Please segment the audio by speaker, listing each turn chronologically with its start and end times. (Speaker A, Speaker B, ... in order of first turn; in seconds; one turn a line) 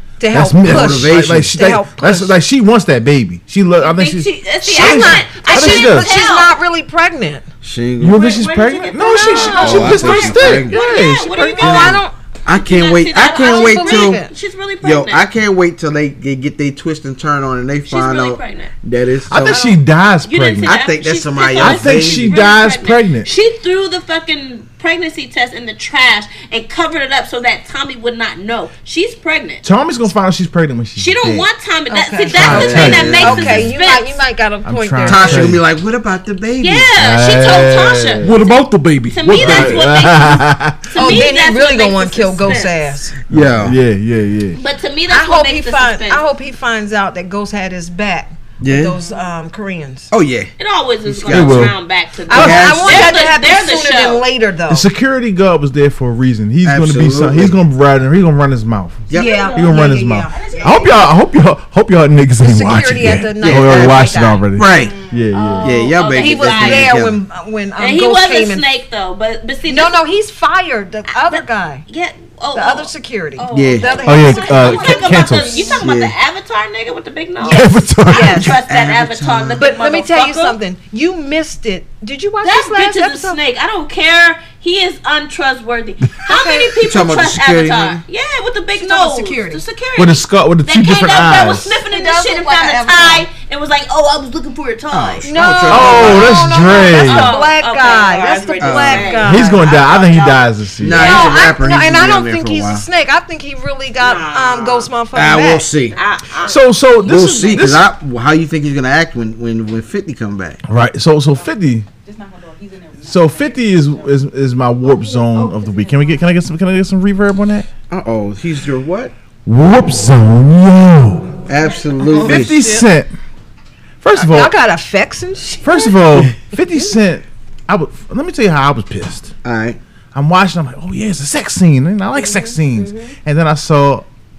Speaker A: 0.2-2.3
Speaker B: 0.3-6.1
Speaker C: 0.6-1.6
Speaker D: 3.8-6.6
Speaker A: 4.6-7.5
Speaker C: 7.6-8.3
Speaker B: 8.0-12.0
Speaker D: 8.1-15.3
Speaker A: 9.1-9.9
Speaker C: 9.4-10.8
Speaker A: 11.6-12.1
Speaker C: 11.6-14.2
Speaker A: 13.2-14.3
Speaker C: 14.8-19.6
Speaker D: 17.9-18.7
Speaker B: 19.3-20.8
Speaker D: 20.2-29.6
Speaker C: 20.6-22.4
Speaker B: 21.6-23.3
Speaker B: 29.6-31.5
Speaker D: 31.0-34.1
Speaker A: 31.9-35.6
Speaker B: 32.4-33.7
Speaker C: 32.4-33.6
Speaker B: 34.6-35.6
Speaker C: 35.0-36.9
Speaker D: 36.6-38.5
Speaker B: 37.0-41.2
Speaker C: 38.2-38.6
Speaker D: 39.1-42.9
Speaker C: 39.2-39.8
Speaker A: 40.9-43.2
Speaker C: 43.3-43.8
Speaker B: 43.3-44.6
Speaker D: 44.5-46.2
Speaker A: 45.1-50.1
Speaker C: 48.6-49.0
Speaker C: 50.1-50.5
Speaker D: 50.6-54.2
Speaker C: 51.0-51.8
Speaker B: 51.3-51.8
Speaker A: 52.3-54.9
Speaker C: 52.3-53.2
Speaker B: 52.4-52.7
Speaker B: 54.7-65.8
Speaker C: 56.6-57.6
Speaker C: 59.1-59.5
Speaker A: 59.1-60.5
Speaker E: 59.1-61.1
Speaker A: 62.4-64.5
Speaker C: 63.4-64.9
Speaker E: 64.7-65.6
Speaker D: 65.5-67.0
Speaker A: 65.6-68.7
Speaker C: 65.6-67.2
Speaker D: 67.8-70.0
Speaker A: 69.7-71.8
Speaker D: 71.1-80.6
Speaker A: 72.5-75.8
Speaker C: 73.5-74.0
Speaker B: 74.0-75.8
Speaker C: 75.7-76.1
Speaker A: 77.4-78.6
Speaker B: 77.5-78.5
Speaker C: 78.6-79.6
Speaker A: 79.6-83.4
Speaker D: 82.4-101.5
Speaker A: 86.2-86.8
Speaker C: 86.8-88.0
Speaker A: 88.7-89.6
Speaker B: 90.0-91.8
Speaker A: 91.8-93.3
Speaker C: 94.9-96.5
Speaker A: 95.2-99.8
Speaker B: 95.7-97.3
Speaker C: 98.6-99.2
Speaker B: 99.2-101.1
Speaker C: 100.8-102.8
Speaker A: 100.9-105.7
Speaker D: 104.0-104.9
Speaker C: 105.1-106.0
Speaker D: 105.9-106.6
Speaker B: 106.4-107.9
Speaker C: 107.0-110.6
Speaker B: 110.6-111.9
Speaker E: 111.3-114.3
Speaker B: 113.0-117.7
Speaker E: 114.8-116.3
Speaker C: 117.9-119.1
Speaker B: 119.4-121.4
Speaker C: 121.5-122.6
Speaker E: 121.6-122.2
Speaker B: 122.1-123.1
Speaker A: 122.2-122.7
Speaker B: 124.0-124.5
Speaker A: 124.1-126.9
Speaker B: 125.6-129.3
Speaker C: 129.4-129.8
Speaker B: 130.1-134.1
Speaker D: 132.3-133.1